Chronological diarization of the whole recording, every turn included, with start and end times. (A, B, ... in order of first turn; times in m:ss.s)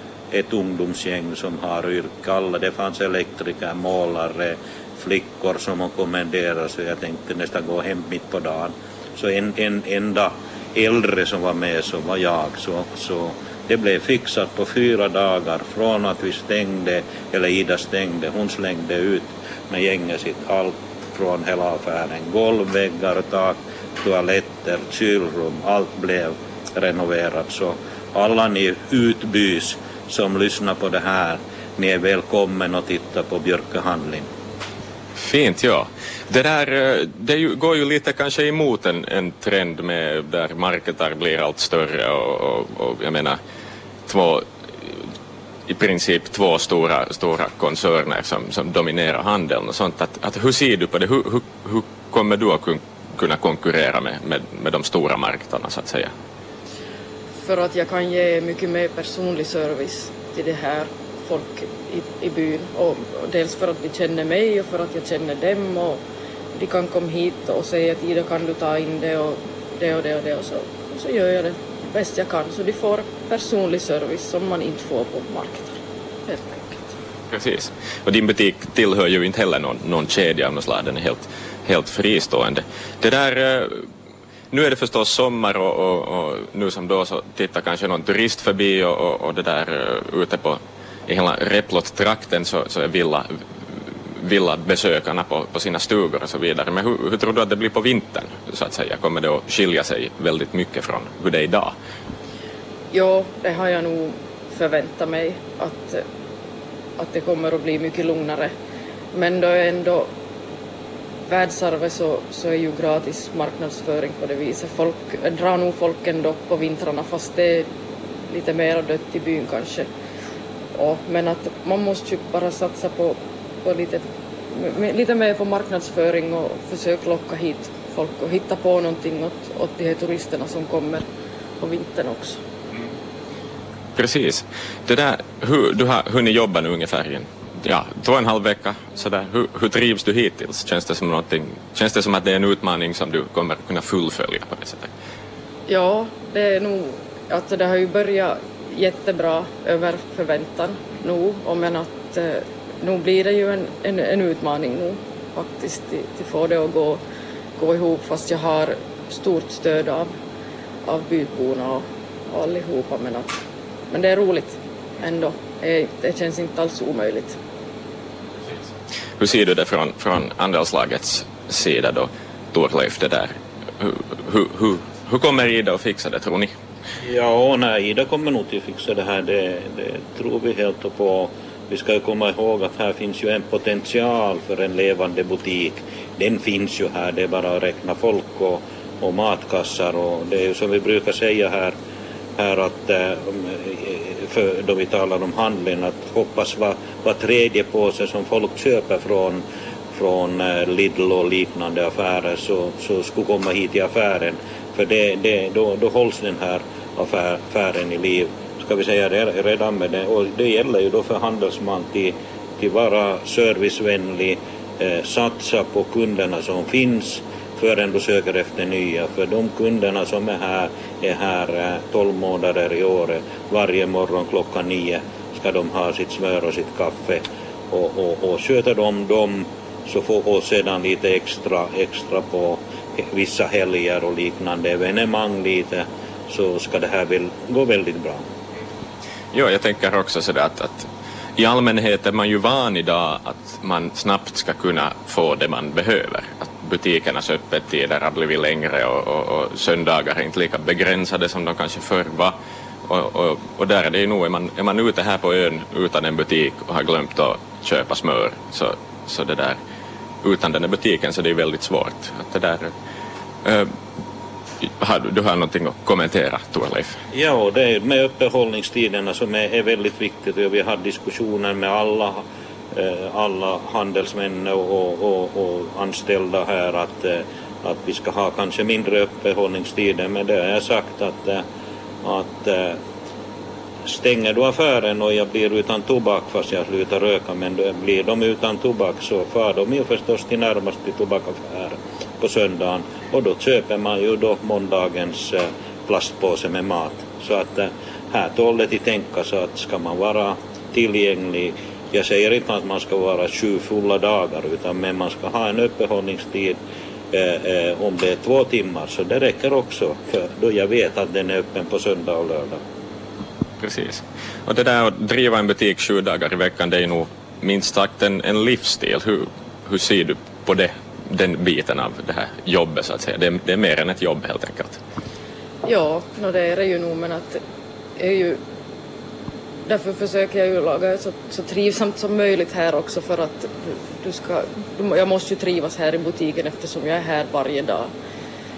0:00.3-0:34.3 A
0:35.2-0:43.4 B
0:44.1-0:45.0 B
0:45.7-0:56.1 B
0:57.4-1:06.0 C
1:06.5-1:16.9 C
1:17.3-1:23.8 B
1:24.5-1:33.3 B
1:34.2-1:41.8 B
1:42.9-1:46.0 C
1:47.0-1:48.5 C
1:49.1-1:50.1 C
1:51.3-1:59.9 C
2:00.8-2:11.1 C
2:11.6-2:12.4 C
2:14.0-2:24.9 B
2:25.7-2:37.0 C
2:37.6-2:40.1 C
2:40.8-2:43.3 C
2:43.9-2:47.4 C
2:49.2-2:56.5 B
2:57.0-3:11.8 A
3:12.4-3:58.3 A
3:59.3-4:19.6 B
4:20.2-4:22.7 B
4:23.4-4:23.7 B
4:24.6-4:27.0 B
4:27.1-4:41.4 A
4:42.0-4:42.8 A
4:43.8-5:06.6 A
5:07.1-5:12.6 A
5:13.6-5:24.8 B
5:25.6-5:27.4 C
5:28.0-5:28.4 C
5:29.6-5:37.9 C